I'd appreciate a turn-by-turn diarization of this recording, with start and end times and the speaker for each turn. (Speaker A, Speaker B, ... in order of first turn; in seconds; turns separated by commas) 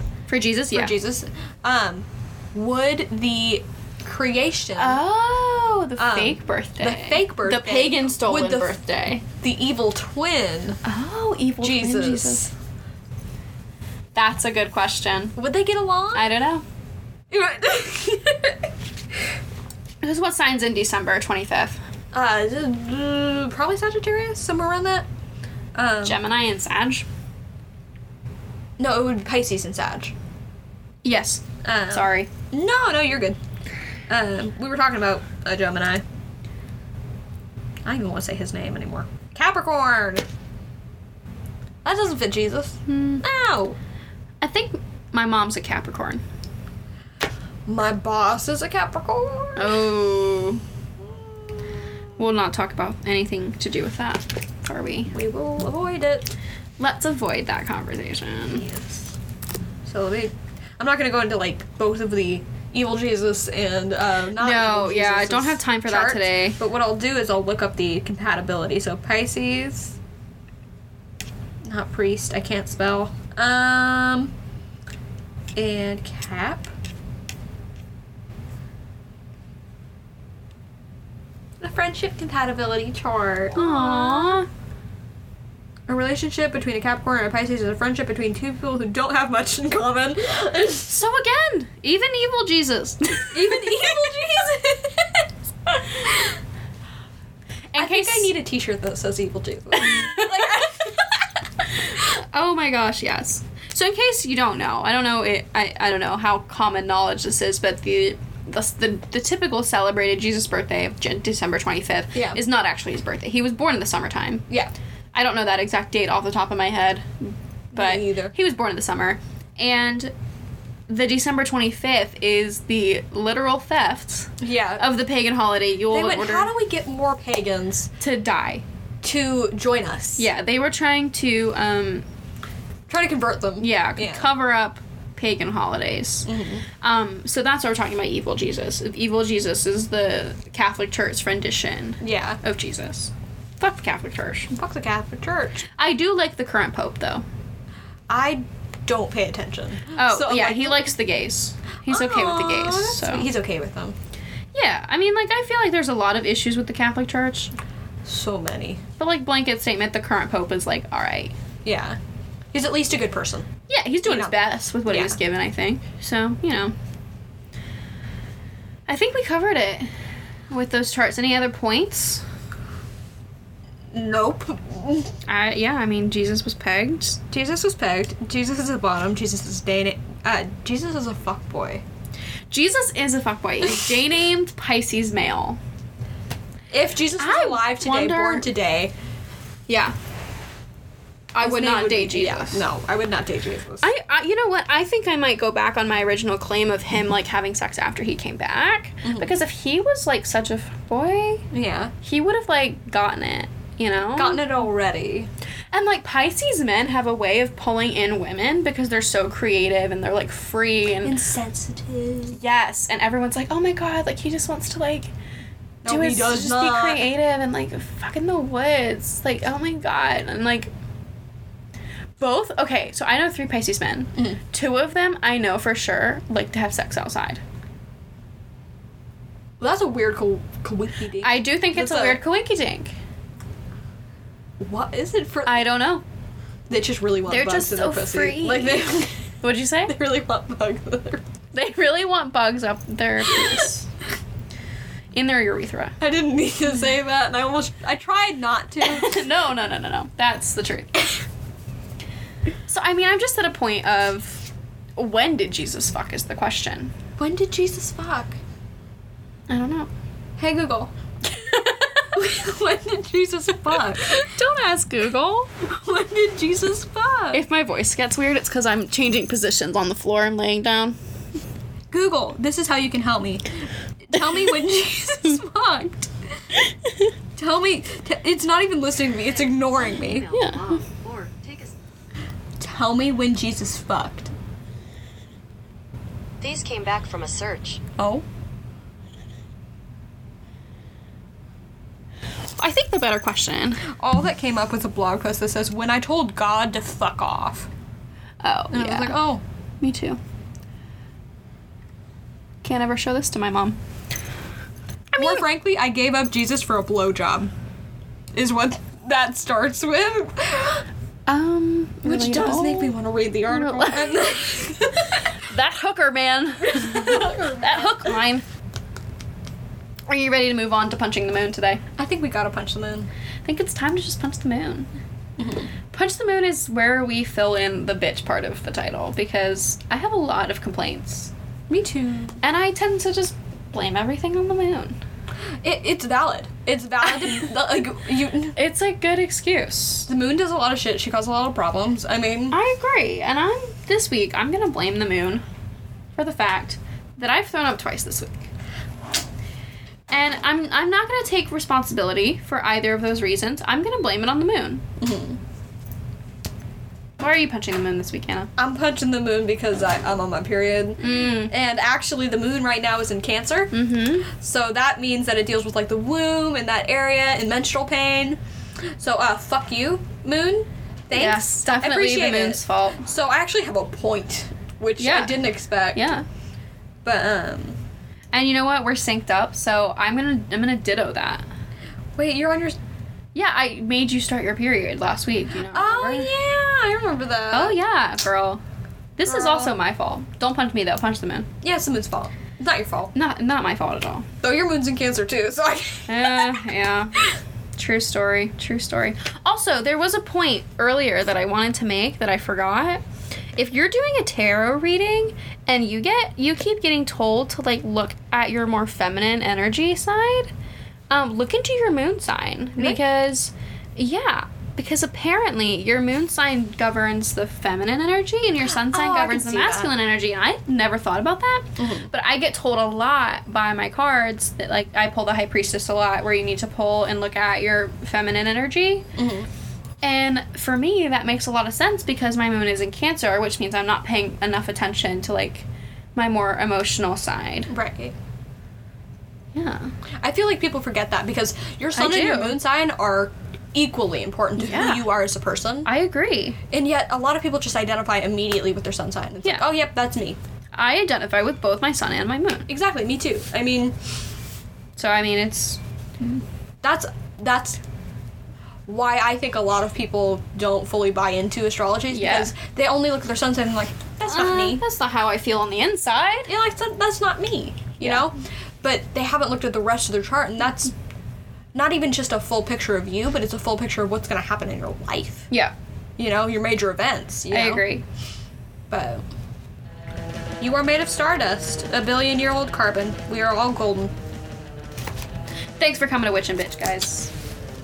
Speaker A: 0.3-0.9, Speaker B: 0.7-5.0, Speaker A: 4.8-9.2, Speaker B: 6.0-10.8, Speaker A: 10.8-12.5, Speaker B: 11.6-12.5, Speaker A: 14.1-15.3, Speaker B: 15.3-16.3, Speaker A: 16.1-16.6, Speaker B: 17.3-18.7, Speaker A: 20.0-21.8, Speaker B: 22.1-25.1, Speaker B: 25.7-26.2, Speaker A: 26.0-27.1, Speaker B: 28.8-30.1, Speaker A: 31.0-32.3, Speaker B: 31.6-33.4, Speaker B: 34.1-36.0, Speaker B: 37.8-40.2, Speaker B: 41.8-43.8, Speaker A: 42.9-43.2, Speaker A: 44.4-46.2, Speaker B: 47.6-49.9, Speaker A: 49.6-50.6, Speaker B: 51.0-52.0, Speaker A: 52.2-55.1, Speaker B: 55.1-56.3, Speaker A: 56.8-58.6, Speaker B: 58.5-59.1, Speaker B: 59.8-70.0, Speaker A: 64.4-66.6, Speaker B: 71.6-74.3, Speaker B: 75.5-76.7, Speaker B: 81.6-84.4, Speaker A: 83.5-84.5, Speaker B: 85.9-90.9, Speaker A: 90.8-93.8, Speaker B: 93.3-96.3, Speaker A: 97.7-98.3, Speaker B: 97.8-101.2, Speaker A: 99.8-100.6, Speaker A: 101.9-114.4, Speaker B: 112.1-112.4, Speaker A: 115.1-120.1, Speaker B: 117.7-118.3, Speaker A: 120.9-126.5, Speaker B: 124.4-124.8, Speaker B: 125.9-127.9, Speaker A: 128.0-128.6, Speaker B: 129.0-130.3, Speaker A: 130.2-132.0, Speaker B: 132.9-134.3, Speaker A: 133.6-136.3, Speaker B: 136.2-136.6, Speaker A: 136.8-144.5, Speaker B: 142.0-142.4, Speaker B: 144.5-145.6, Speaker A: 145.7-147.2, Speaker B: 148.1-150.9, Speaker A: 149.9-153.3, Speaker B: 151.8-153.9, Speaker A: 154.5-157.5, Speaker B: 158.0-158.8, Speaker A: 159.0-161.3, Speaker B: 161.6-162.0, Speaker B: 162.5-163.5, Speaker A: 163.7-166.7, Speaker B: 164.0-165.2, Speaker A: 168.9-169.9, Speaker A: 170.5-172.2, Speaker B: 173.9-175.1, Speaker A: 175.2-177.2, Speaker B: 177.3-181.8, Speaker A: 182.5-185.6, Speaker B: 186.7-188.9, Speaker A: 187.2-188.5, Speaker A: 189.7-189.9, Speaker A: 191.3-192.7, Speaker B: 191.4-193.9, Speaker A: 193.8-201.5, Speaker B: 199.0-199.3, Speaker B: 201.5-201.9, Speaker A: 202.0-204.6, Speaker B: 204.1-205.3, Speaker A: 205.7-211.2, Speaker B: 211.0-212.4, Speaker A: 212.3-215.1, Speaker B: 215.8-217.1, Speaker A: 215.8-220.7, Speaker A: 222.2-227.4, Speaker B: 229.6-232.2, Speaker A: 231.2-232.9, Speaker B: 234.6-235.7, Speaker A: 235.4-236.0, Speaker B: 236.7-239.2, Speaker A: 237.3-239.9, Speaker B: 239.8-241.2, Speaker A: 241.5-243.9, Speaker B: 243.3-243.7, Speaker A: 245.1-246.0, Speaker B: 246.0-249.2, Speaker A: 248.8-251.2, Speaker A: 252.7-256.9, Speaker B: 257.2-258.4, Speaker A: 259.5-259.9, Speaker B: 260.4-260.9, Speaker A: 261.3-262.1, Speaker B: 262.1-264.3, Speaker A: 264.0-265.5, Speaker B: 265.7-267.4, Speaker A: 267.3-270.9, Speaker B: 271.9-276.1, Speaker B: 277.4-280.3, Speaker C: 279.3-281.8, Speaker A: 280.3-280.6, Speaker B: 282.6-284.3, Speaker C: 286.4-287.8, Speaker B: 288.0-288.2, Speaker A: 292.6-293.8, Speaker B: 293.8-297.7, Speaker A: 298.4-299.2, Speaker B: 298.7-299.4, Speaker A: 299.8-300.2, Speaker A: 302.6-303.8, Speaker A: 305.1-305.4, Speaker B: 305.2-307.5, Speaker B: 308.3-310.9, Speaker A: 311.3-312.9, Speaker B: 312.0-315.3, Speaker A: 313.5-314.3, Speaker A: 315.3-318.4, Speaker B: 316.6-318.2, Speaker A: 320.1-321.8, Speaker B: 322.0-323.1, Speaker A: 323.4-324.9, Speaker B: 325.4-325.7, Speaker A: 325.9-331.3, Speaker B: 331.7-332.4, Speaker A: 332.4-335.0, Speaker B: 335.6-338.5, Speaker A: 337.1-337.4, Speaker A: 338.5-340.1, Speaker B: 340.1-342.6, Speaker A: 342.5-345.4, Speaker A: 346.1-348.5, Speaker A: 350.1-354.8, Speaker B: 355.0-355.4, Speaker A: 357.2-358.5, Speaker B: 358.6-363.7, Speaker A: 361.0-361.5, Speaker A: 363.7-364.3, Speaker B: 364.3-368.4, Speaker B: 369.0-376.1, Speaker A: 371.1-373.0, Speaker A: 375.0-375.4, Speaker A: 375.9-376.2, Speaker B: 377.0-377.8, Speaker A: 378.3-381.5, Speaker B: 382.1-382.8, Speaker A: 383.3-386.3, Speaker B: 385.6-387.8, Speaker A: 387.5-388.6, Speaker A: 389.1-391.5, Speaker B: 389.2-389.8, Speaker B: 391.6-393.1, Speaker A: 393.1-394.3, Speaker B: 394.4-396.6, Speaker A: 396.1-403.0, Speaker A: 403.6-410.5, Speaker A: 411.1-429.1, Speaker B: 412.8-413.0, Speaker B: 418.6-419.9, Speaker B: 421.8-422.1, Speaker B: 429.1-429.5, Speaker A: 430.0-437.7, Speaker B: 437.7-438.1, Speaker A: 439.5-439.9, Speaker B: 440.2-445.9, Speaker A: 441.9-442.6, Speaker A: 444.6-445.1, Speaker A: 445.8-446.6, Speaker B: 446.7-450.4, Speaker A: 450.7-452.7, Speaker B: 452.7-453.9, Speaker A: 455.0-456.4, Speaker B: 456.8-457.8, Speaker B: 458.9-464.8, Speaker A: 462.1-462.5, Speaker A: 464.2-466.5, Speaker B: 466.5-470.9, Speaker A: 468.0-468.3, Speaker B: 471.7-475.5, Speaker B: 476.2-477.9, Speaker A: 477.5-478.0, Speaker B: 478.9-479.2, Speaker B: 480.6-484.1, Speaker A: 485.8-487.3